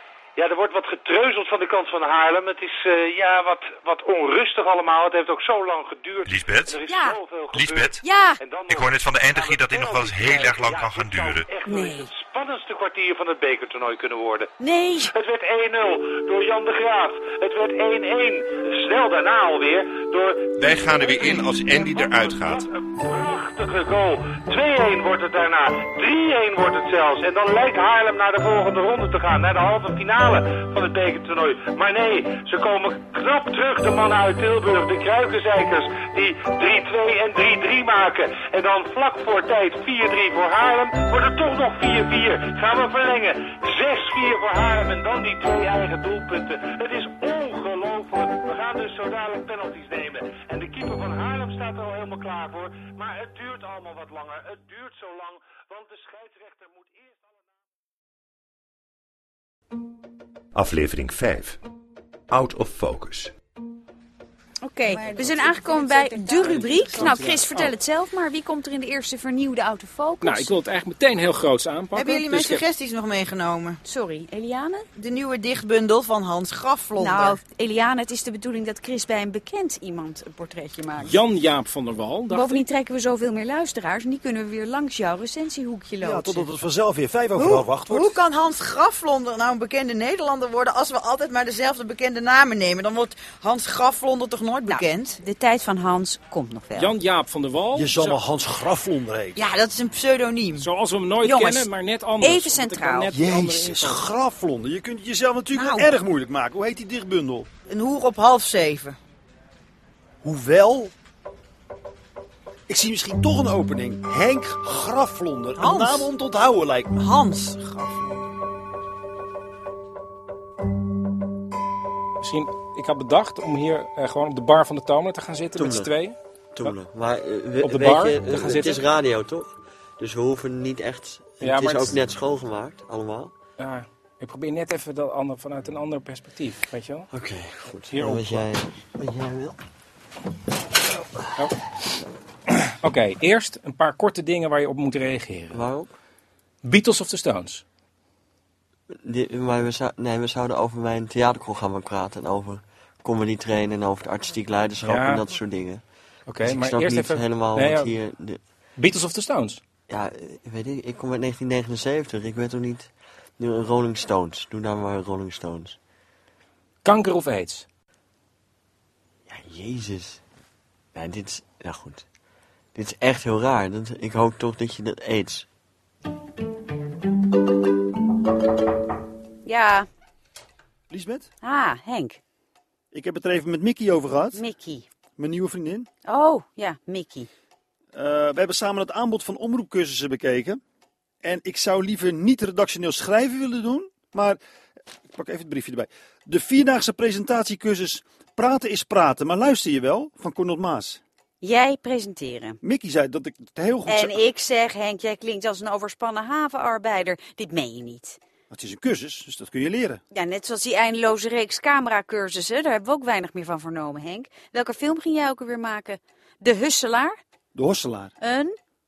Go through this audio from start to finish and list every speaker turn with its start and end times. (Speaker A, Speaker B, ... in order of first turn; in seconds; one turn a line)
Speaker A: 0.4-14.5
Speaker B: 6.3-6.8
Speaker C: 6.9-7.2
Speaker B: 7.5-8.0
Speaker C: 8.0-8.4
Speaker B: 8.7-11.5
Speaker C: 11.7-12.1
Speaker C: 14.6-15.1
Speaker A: 15.1-57.2
Speaker B: 20.6-22.7
Speaker B: 60.5-61.6
Speaker B: 62.3-63.3
Speaker C: 64.6-70.5
Speaker D: 64.8-67.4
Speaker E: 66.9-67.7
Speaker E: 70.2-72.7
Speaker D: 72.0-73.8
Speaker C: 73.8-74.9
Speaker D: 75.0-77.4
Speaker C: 77.0-81.2
Speaker E: 81.0-82.6
Speaker C: 82.3-86.5
Speaker F: 86.0-88.2
Speaker D: 87.4-95.2
Speaker C: 94.7-96.9
Speaker E: 96.8-98.2
Speaker F: 97.7-99.4
Speaker D: 99.4-100.7
Speaker E: 100.6-104.0
Speaker C: 101.2-101.7
Speaker C: 102.2-103.1
Speaker F: 103.1-107.5
Speaker D: 105.5-105.9
Speaker D: 107.7-109.0
Speaker F: 110.2-110.9
Speaker F: 112.7-117.0
Speaker D: 115.6-116.1
Speaker D: 117.0-118.3
Speaker E: 122.2-126.8
Speaker G: 125.6-125.9
Speaker G: 126.6-133.3
Speaker E: 127.6-128.9
Speaker E: 131.4-132.0
Speaker E: 133.6-137.1
Speaker G: 137.1-139.6
Speaker E: 137.9-138.5
Speaker E: 142.7-145.7
Speaker G: 145.5-145.9
Speaker E: 146.6-147.6
Speaker G: 149.0-155.8
Speaker E: 154.8-155.3
Speaker E: 156.3-158.0
Speaker G: 156.4-158.4
Speaker E: 158.8-159.6
Speaker G: 159.9-165.8
Speaker E: 166.8-167.7
Speaker G: 169.3-170.2
Speaker G: 170.9-172.1
Speaker G: 172.8-175.5
Speaker C: 179.4-179.9
Speaker F: 180.9-181.3
Speaker C: 181.4-182.2
Speaker F: 182.9-184.4
Speaker C: 184.3-184.9
Speaker F: 185.2-185.9
Speaker C: 186.1-187.3
Speaker F: 187.9-190.6
Speaker F: 191.2-194.4
Speaker F: 195.1-201.0
Speaker C: 201.4-202.6
Speaker F: 202.6-204.2
Speaker C: 203.9-208.2
Speaker F: 208.5-210.0
Speaker C: 210.1-217.2
Speaker F: 217.6-218.1
Speaker C: 218.2-218.6